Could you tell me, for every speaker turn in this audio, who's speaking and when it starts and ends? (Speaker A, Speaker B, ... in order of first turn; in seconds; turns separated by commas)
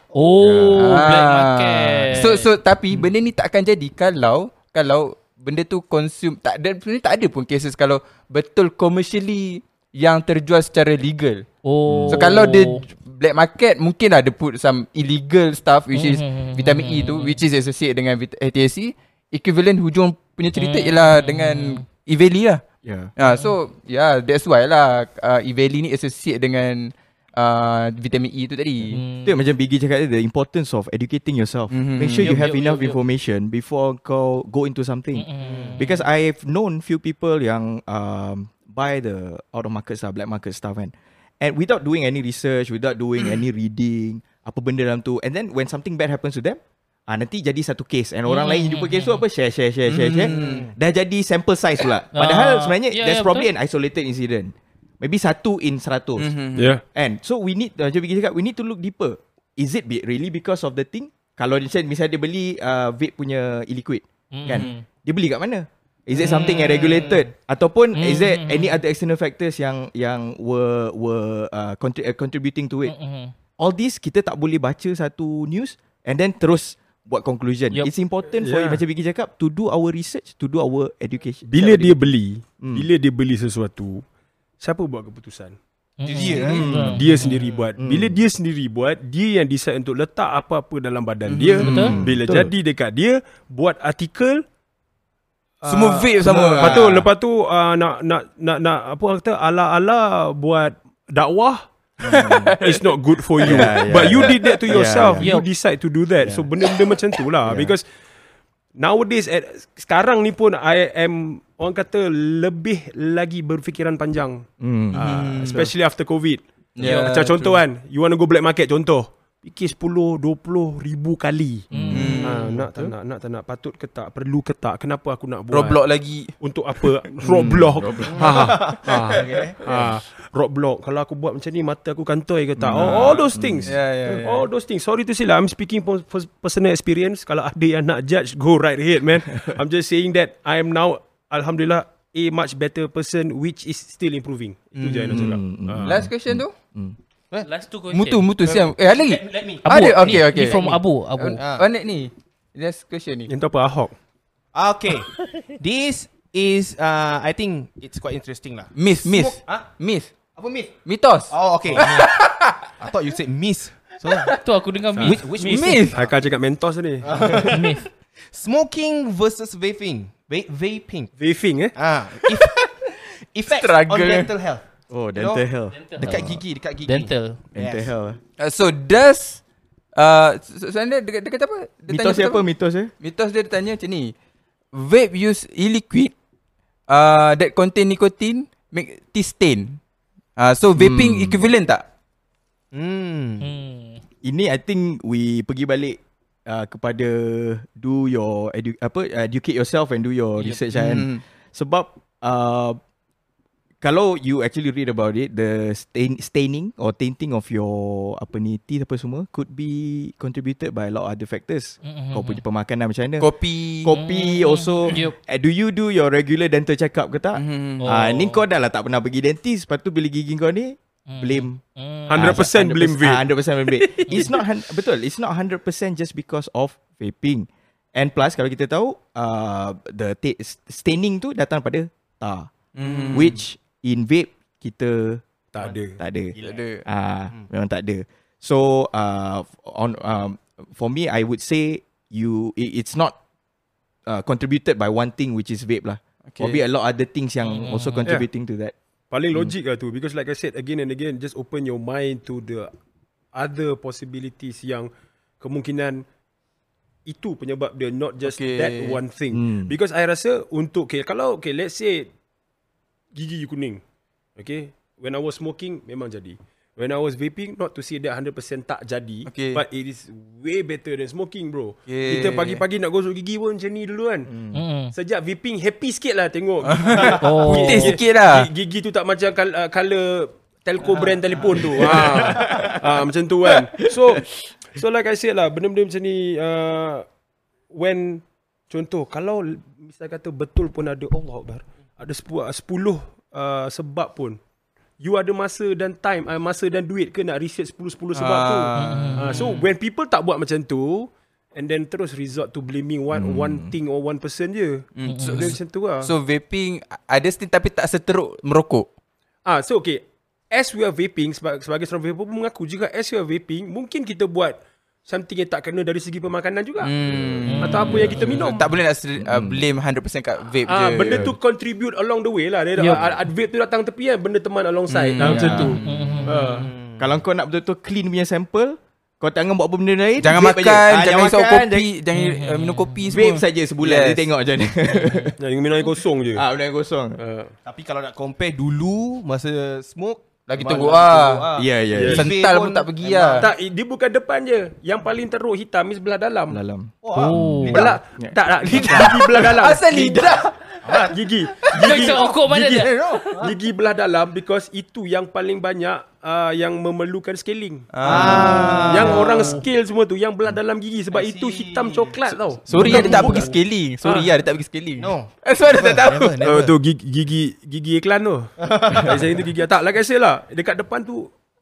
Speaker A: 0.1-2.5, Speaker B: 0.4-0.8, Speaker C: 0.7-11.5, Speaker A: 11.6-12.8, Speaker B: 11.8-12.3, Speaker C: 12.1-22.6, Speaker A: 15.9-17.4, Speaker A: 20.5-21.8, Speaker B: 22.8-23.1, Speaker C: 23.2-29.0, Speaker A: 23.2-23.6, Speaker A: 28.9-29.3, Speaker B: 29.1-73.0, Speaker C: 31.7-32.5, Speaker A: 32.2-33.0, Speaker A: 35.1-36.0, Speaker D: 35.4-35.8, Speaker A: 48.3-49.2, Speaker C: 49.9-50.7, Speaker D: 50.3-50.7, Speaker A: 52.1-53.5, Speaker C: 56.2-56.8, Speaker E: 56.5-56.8, Speaker A: 64.3-64.8, Speaker C: 64.5-64.8, Speaker C: 66.2-67.1, Speaker A: 67.9-68.8, Speaker A: 72.8-73.3, Speaker B: 73.6-81.9, Speaker E: 78.4-78.8, Speaker E: 81.5-84.0, Speaker B: 82.6-82.9, Speaker E: 84.6-85.6, Speaker A: 86.0-87.4, Speaker D: 86.1-86.7, Speaker B: 86.4-87.0, Speaker E: 86.7-94.4, Speaker D: 87.4-87.7, Speaker B: 87.8-88.2, Speaker C: 91.3-91.9, Speaker A: 91.6-92.0, Speaker B: 91.7-92.5, Speaker E: 95.6-101.7, Speaker C: 95.6-96.8, Speaker B: 96.2-97.1, Speaker B: 102.0-102.6, Speaker C: 102.0-102.8, Speaker E: 102.6-107.8, Speaker B: 103.4-105.3, Speaker A: 105.2-105.5, Speaker B: 106.2-106.5, Speaker B: 107.4-107.8, Speaker E: 108.8-121.7, Speaker B: 114.6-115.7, Speaker C: 114.9-115.6, Speaker C: 116.8-117.6, Speaker A: 116.8-117.1, Speaker B: 121.7-122.2, Speaker A: 121.7-122.2, Speaker C: 121.9-122.5, Speaker E: 122.2-125.8, Speaker C: 125.5-129.1, Speaker E: 126.4-146.0, Speaker D: 128.1-129.6, Speaker B: 129.6-129.9, Speaker B: 132.6-133.7, Speaker C: 132.7-134.4, Speaker C: 144.8-146.5, Speaker B: 145.1-147.0, Speaker A: 147.4-148.3, Speaker C: 147.9-153.3, Speaker D: 148.5-150.7, Speaker A: 149.6-151.4, Speaker D: 151.4-151.7, Speaker E: 153.3-153.9, Speaker D: 154.5-159.7, Speaker C: 158.7-160.1, Speaker D: 160.3-160.7, Speaker C: 160.8-162.6, Speaker D: 161.3-162.2, Speaker D: 162.8-164.4, Speaker A: 164.3-165.9, Speaker D: 165.0-166.1, Speaker C: 165.4-166.0, Speaker E: 165.9-167.4, Speaker D: 167.0-167.7, Speaker A: 167.4-167.9, Speaker D: 168.3-171.1, Speaker E: 171.2-171.8, Speaker D: 171.7-172.8, Speaker D: 173.3-177.9, Speaker C: 173.5-174.3, Speaker B: 174.9-176.4, Speaker A: 175.7-176.3, Speaker A: 176.8-177.4, Speaker B: 177.5-178.2, Speaker C: 178.4-179.4, Speaker C: 179.9-182.5, Speaker B: 181.9-182.9, Speaker C: 183.0-184.1, Speaker C: 184.7-186.1, Speaker C: 186.9-189.8, Speaker C: 190.4-191.8, Speaker B: 190.8-191.4, Speaker D: 192.7-193.5, Speaker A: 193.4-194.0, Speaker B: 194.2-202.8, Speaker C: 200.7-201.2, Speaker B: 203.8-232.5, Speaker A: 211.8-212.4, Speaker C: 213.2-214.1, Speaker A: 214.0-215.1, Speaker C: 217.3-218.0, Speaker A: 217.8-218.4, Speaker A: 221.1-222.4, Speaker E: 222.1-223.2, Speaker C: 223.8-224.3, Speaker A: 224.0-224.3, Speaker C: 232.7-233.4, Speaker B: 233.1-235.2, Speaker E: 235.5-236.0, Speaker B: 236.0-243.2, Speaker C: 236.4-236.8, Speaker B: 244.1-248.7, Speaker C: 246.3-246.6, Speaker A: 247.4-248.1, Speaker E: 249.1-252.7, Speaker E: 253.3-256.0, Speaker E: 257.1-262.1, Speaker C: 258.2-259.0, Speaker B: 259.3-259.8, Speaker E: 263.1-263.8, Speaker E: 264.4-274.3, Speaker C: 269.2-269.6, Speaker C: 271.9-272.6, Speaker B: 274.3-274.6, Speaker A: 274.5-274.9, Speaker E: 274.9-287.1, Speaker C: 276.7-278.5, Speaker A: 277.2-278.0, Speaker B: 281.7-282.8, Speaker B: 283.5-284.2, Speaker E: 287.7-294.4, Speaker E: 295.0-306.1, Speaker C: 298.1-299.2, Speaker A: 298.7-299.6, Speaker B: 303.1-303.7, Speaker C: 304.9-308.9, Speaker A: 305.1-305.5, Speaker E: 309.4-318.7, Speaker C: 316.8-321.3, Speaker A: 317.4-318.4, Speaker B: 317.9-318.2, Speaker B: 319.2-319.6, Speaker E: 320.7-326.6, Speaker A: 322.8-323.1, Speaker C: 324.9-325.8, Speaker B: 325.2-331.9, Speaker A: 325.5-326.6, Speaker D: 326.6-327.1, Speaker C: 330.2-334.3, Speaker A: 332.1-333.1, Speaker B: 333.1-335.4, Speaker E: 335.4-336.4, Speaker B: 336.3-337.2, Speaker E: 337.2-337.5, Speaker D: 337.6-343.5, Speaker C: 340.5-341.4, Speaker B: 341.5-342.3, Speaker E: 341.9-342.2, Speaker C: 342.1-343.5, Speaker E: 343.4-346.6, Speaker B: 346.5-349.2, Speaker D: 347.0-348.0, Speaker A: 347.1-347.9, Speaker E: 347.7-350.5, Speaker C: 349.1-350.9, Speaker D: 350.8-351.2, Speaker E: 351.1-363.5, Speaker A: 351.7-353.4, Speaker D: 352.7-353.5, Speaker C: 357.9-359.6, Speaker D: 358.0-359.6, Speaker B: 358.3-358.8, Speaker D: 361.1-362.1, Speaker C: 362.3-366.4, Speaker A: 362.7-363.5, Speaker D: 362.8-363.5, Speaker E: 364.0-364.3, Speaker D: 365.0-366.7, Speaker E: 366.4-371.3, Speaker D: 368.6-369.4